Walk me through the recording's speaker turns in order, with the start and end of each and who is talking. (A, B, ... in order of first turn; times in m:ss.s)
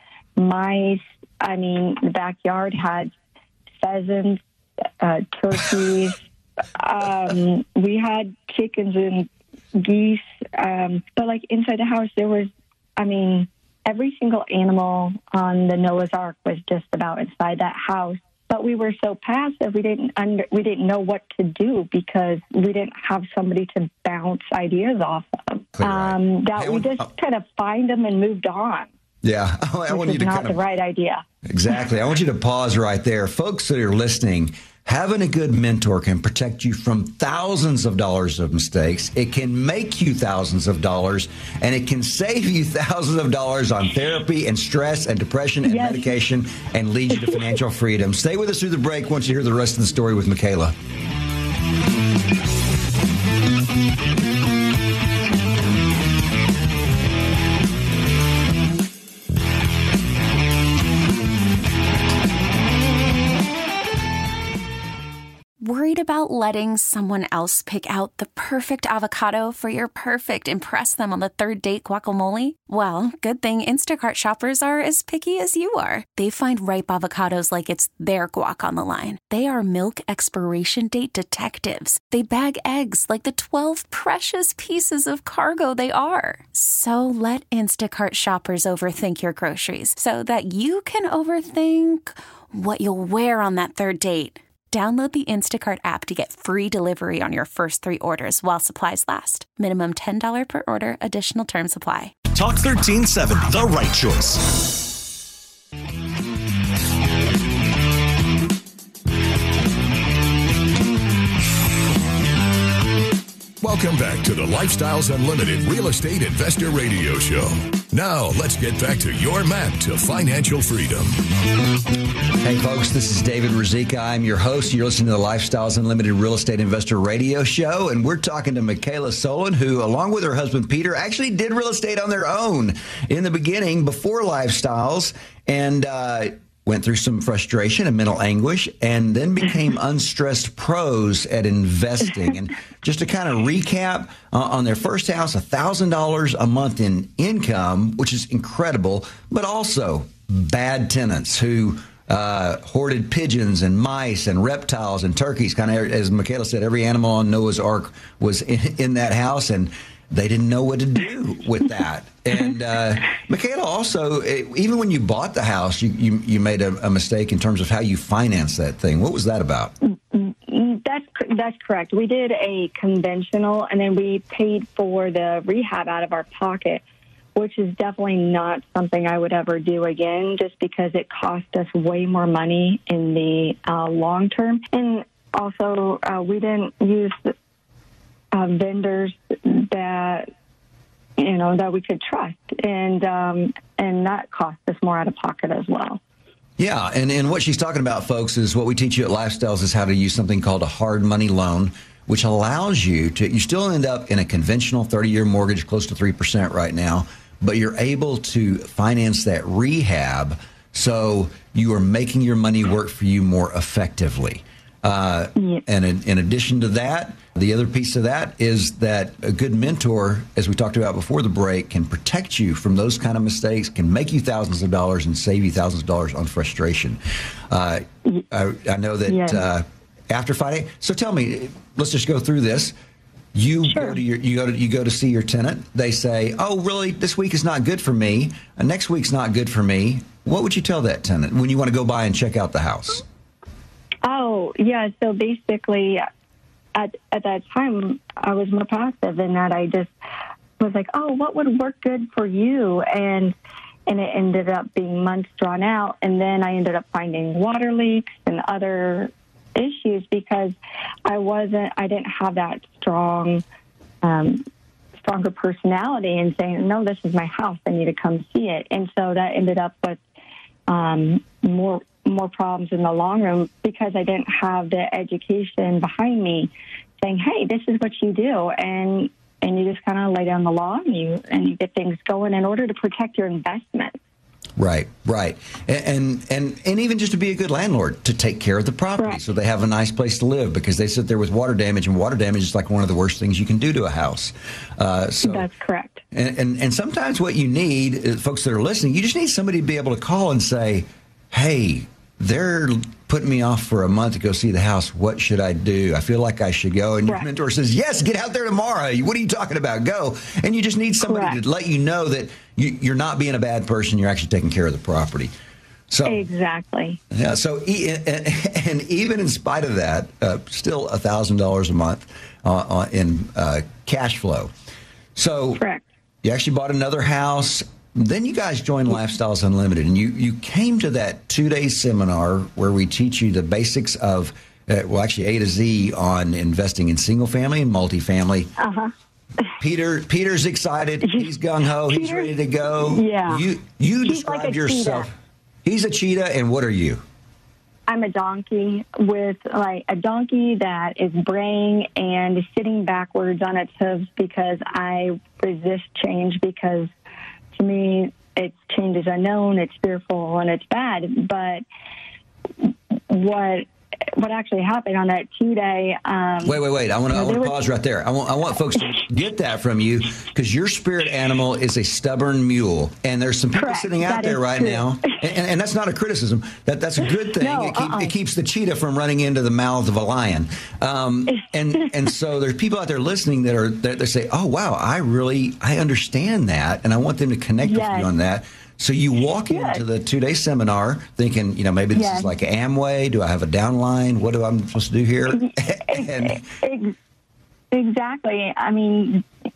0:00.4-0:03.1 A
0:03.8-0:04.4 A
0:05.0-0:06.2 A
0:06.8-0:28.9 A
0:25.8-0:27.1 B
0:29.2-0:30.6 B
0:29.9-0:31.2 A
0:31.4-0:50.8 B
0:45.6-0:46.1 A
0:47.1-0:47.5 A
1:05.6-1:42.2 C
1:42.3-1:44.5 D
1:53.6-2:01.2 E
2:02.4-2:49.7 B
2:49.8-2:56.8 A
2:57.3-3:07.3 A
3:08.3-3:10.3 A
3:11.2-3:16.0 A
3:16.6-3:47.0 B
3:35.4-3:35.6 A
3:47.5-3:52.7 B
3:49.1-3:49.4 A
3:53.3-4:03.0 B
3:53.7-3:54.0 A
4:04.0-4:06.0 A
4:06.7-4:09.9 A
4:10.6-4:13.3 A
4:13.9-4:23.4 A
4:24.0-4:24.4 A
4:25.0-4:30.0 A
4:30.7-4:44.0 A
4:44.6-4:55.5 B
4:55.2-4:56.0 A
4:56.1-5:15.3 B
5:11.0-5:11.4 A
5:15.9-5:16.2 B
5:16.1-5:17.0 A
5:17.1-5:24.5 B
5:25.2-5:25.6 B
5:25.6-5:25.8 A
5:26.2-5:38.5 B
5:38.6-5:38.9 A
5:39.6-5:47.0 B
5:41.9-5:42.3 A
5:42.8-5:43.4 A
5:44.0-5:45.1 A
5:47.9-5:56.9 A
5:57.6-6:01.6 A
6:02.6-6:06.6 A
6:06.4-6:36.4 B
6:07.1-6:07.6 A
6:13.6-6:14.8 A
6:17.4-6:18.1 A
6:27.6-6:28.1 A
6:29.5-6:29.8 A
6:31.9-6:32.3 A
6:35.3-6:36.9 A
6:37.7-6:39.2 A